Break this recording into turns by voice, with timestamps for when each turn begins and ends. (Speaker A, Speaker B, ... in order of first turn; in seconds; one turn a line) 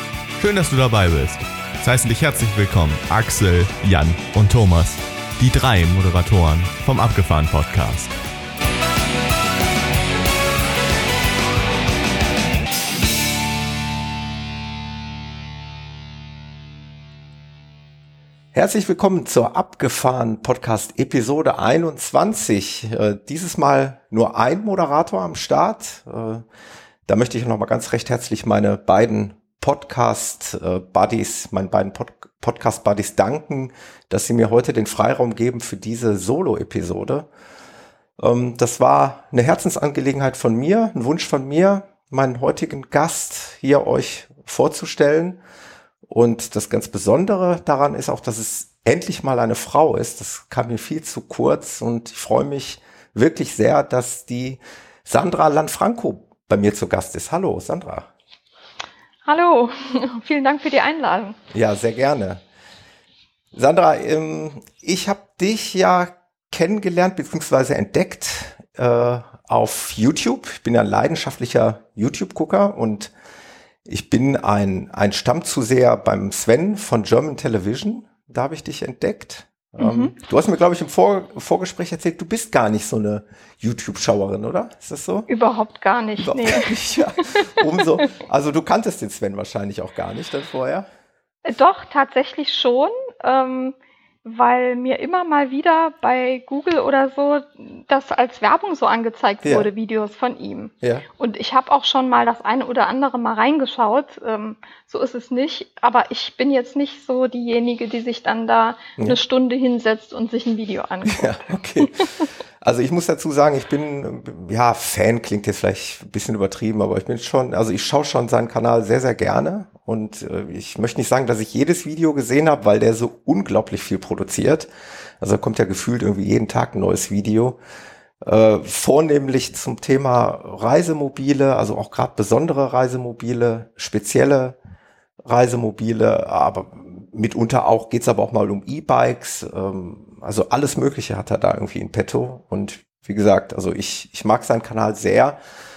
Speaker A: 0.4-8.1
Speaker B: 18.5-26.4
Speaker B: 27.1-37.3
Speaker B: 38.2-45.4
Speaker B: 46.1-58.1
Speaker C: 59.2-61.4
Speaker B: 61.5-62.4
Speaker B: 63.5-73.1
Speaker B: 73.8-85.3
Speaker C: 79.8-80.1
Speaker C: 85.3-88.0
Speaker B: 86.2-90.8
Speaker C: 91.4-112.2
Speaker B: 99.4-99.7
Speaker B: 111.0-124.7
Speaker B: 125.2-127.6
Speaker B: 128.2-134.6
Speaker B: 135.2-145.4